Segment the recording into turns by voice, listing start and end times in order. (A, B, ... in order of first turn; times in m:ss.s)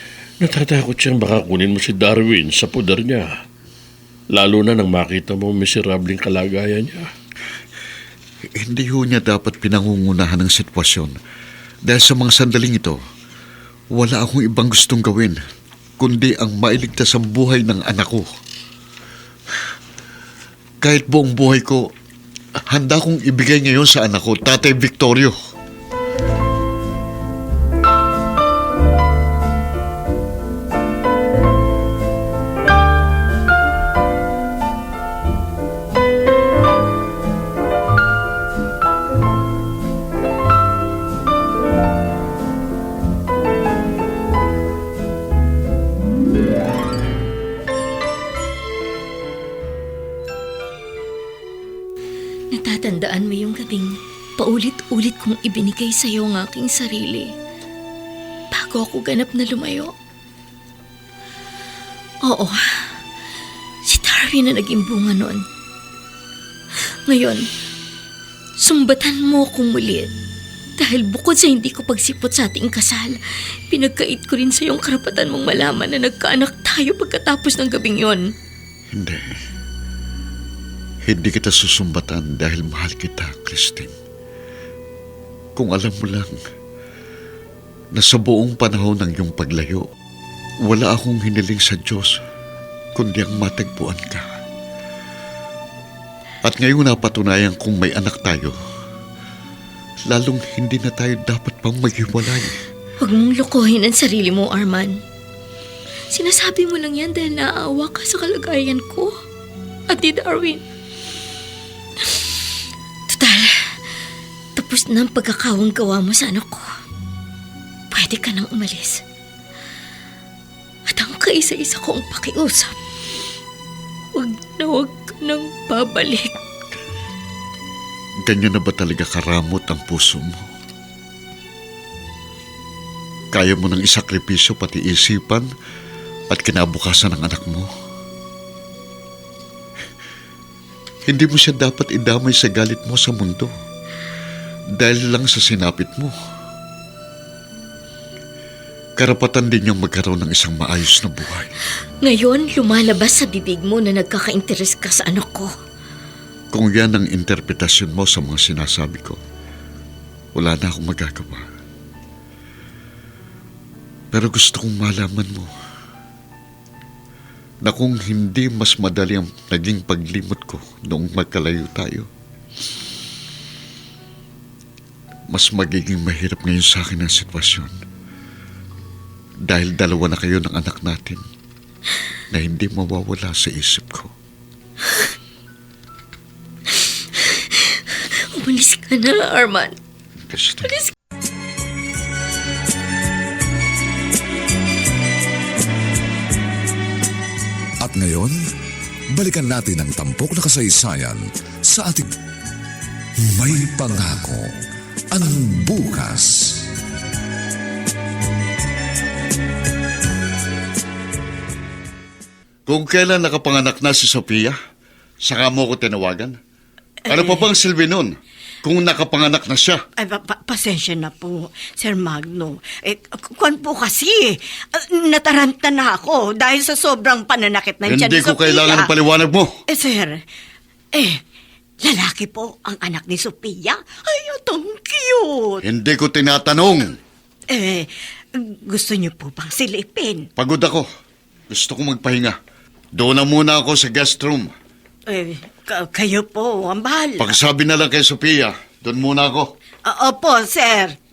0:00.4-0:03.3 A
0:04.3-0:07.0 A
0:08.6-0:11.2 B
0:11.8-0:13.0 B
0:13.9-0:15.4 B
0:16.0-0:18.2 B
0:20.8-0:21.8 B
0:22.7-0:25.3 B
0:52.5-0:57.3 C
0:58.5-0:59.9 C
1:02.2-1:02.6 C
1:03.9-1:05.4 C
1:07.1-1:07.4 C
1:08.6-1:10.1 C
1:10.8-1:13.2 C
1:13.7-1:18.2 C
1:18.9-1:19.2 B
1:21.0-1:23.9 B
1:25.6-1:26.3 B
1:27.9-1:29.9 B
1:30.6-1:32.2 B
1:32.9-1:34.2 B
1:36.4-1:38.5 B
1:40.1-1:42.5 B
1:43.0-1:45.0 C
1:46.1-1:49.2 C
1:49.9-1:50.6 C
1:53.1-1:53.5 C
1:54.6-1:56.7 C
1:57.9-1:59.0 C
2:00.9-2:02.7 C
2:04.1-2:06.3 C
2:08.2-2:10.4 B
2:13.3-2:15.5 B
2:16.3-2:17.7 B
2:21.0-2:23.5 B
2:24.8-2:26.1 B
2:29.0-2:31.5 B
2:32.0-2:35.5 C
2:36.5-2:39.2 B
2:40.3-2:41.4 B
2:44.1-2:45.5 B
2:47.6-2:52.1 B
2:55.3-2:57.7 B
2:59.5-3:01.2 B
3:02.3-3:04.1 B
3:08.3-3:09.8 C
3:10.3-3:10.7 B
3:10.6-3:10.9 C
3:17.8-3:18.4 D
3:19.1-3:22.1 D
3:23.3-3:24.5 D
3:25.1-3:26.6 D
3:32.7-3:34.6 B
3:35.2-3:36.4 B
3:37.1-3:39.8 B
3:37.1-3:37.5 E
3:40.0-3:48.9 E
3:47.8-3:49.5 B
3:49.7-3:50.2 E
3:50.9-3:51.2 E
3:51.8-3:55.6 E
3:55.6-3:56.9 B
3:57.5-4:00.3 E
4:00.4-4:00.9 B
4:01.5-4:02.4 B
4:02.9-4:04.5 B
4:05.1-4:07.4 E
4:07.2-4:09.5 B
4:09.8-4:11.0 E